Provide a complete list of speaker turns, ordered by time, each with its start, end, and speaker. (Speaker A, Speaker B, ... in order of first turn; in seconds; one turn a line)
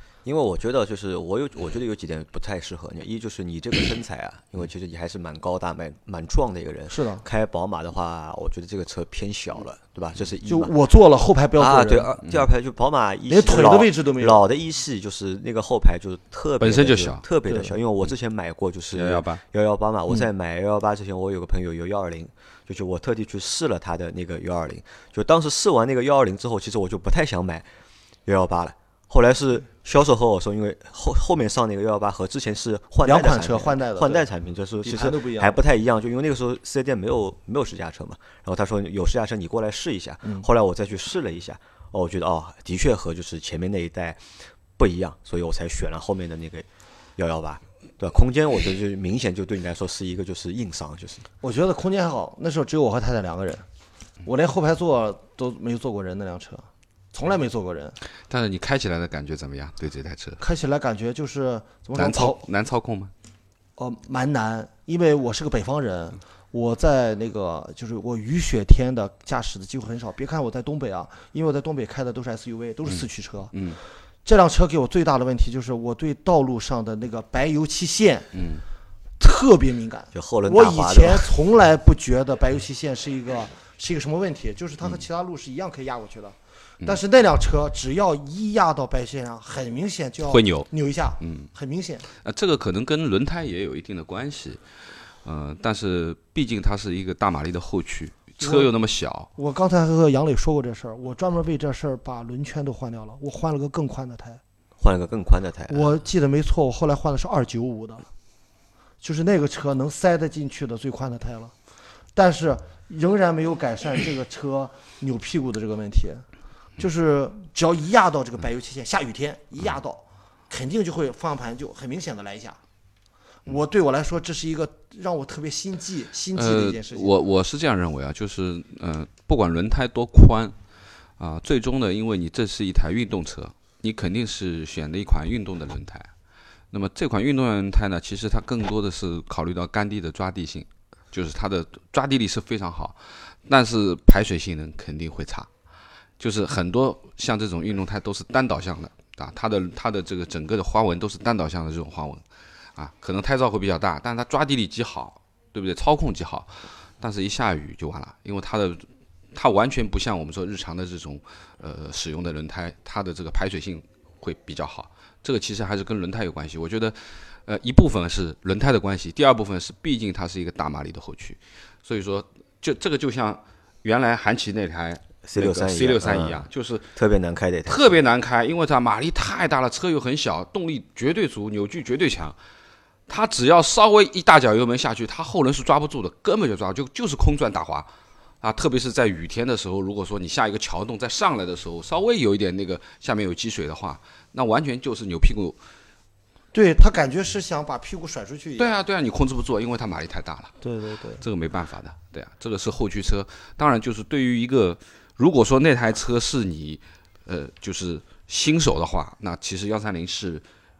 Speaker A: 0.2-10.7
Speaker B: 6.9-7.2
Speaker B: 10.5-12.1
Speaker A: 11.6-27.7
Speaker B: 13.3-14.4
Speaker C: 16.6-17.2
Speaker B: 17.5-17.7
Speaker C: 18.9-19.4
Speaker A: 28.3-44.2
Speaker B: 33.0-34.3
Speaker B: 34.8-35.6
Speaker A: 44.8-51.2
Speaker B: 51.4-53.6
Speaker B: 54.2-58.0
Speaker C: 58.3-60.4
Speaker B: 60.4-62.4
Speaker C: 62.0-63.1
Speaker B: 63.8-73.5
Speaker C: 72.9-73.8
Speaker B: 74.2-78.3
Speaker C: 78.3-78.6
Speaker B: 79.2-92.0
Speaker A: 80.1-81.3
Speaker C: 90.3-90.7
Speaker C: 91.2-91.5
Speaker C: 92.2-94.6
Speaker C: 95.2-99.3
Speaker B: 98.4-98.7
Speaker B: 99.4-104.4
Speaker A: 104.8-105.9
Speaker B: 105.7-108.1
Speaker B: 109.0-111.5
Speaker B: 112.1-116.2
Speaker B: 116.8-122.6
Speaker B: 123.5-127.2
Speaker C: 126.3-130.6
Speaker C: 131.2-136.1
Speaker C: 136.7-145.5
Speaker C: 146.2-152.2
Speaker C: 152.8-176.9
Speaker A: 175.2-178.0
Speaker C: 177.7-182.4
Speaker C: 183.1-187.9
Speaker C: 188.4-195.6
Speaker B: 196.5-198.7
Speaker C: 198.6-200.5
Speaker B: 200.6-201.2
Speaker C: 201.2-210.4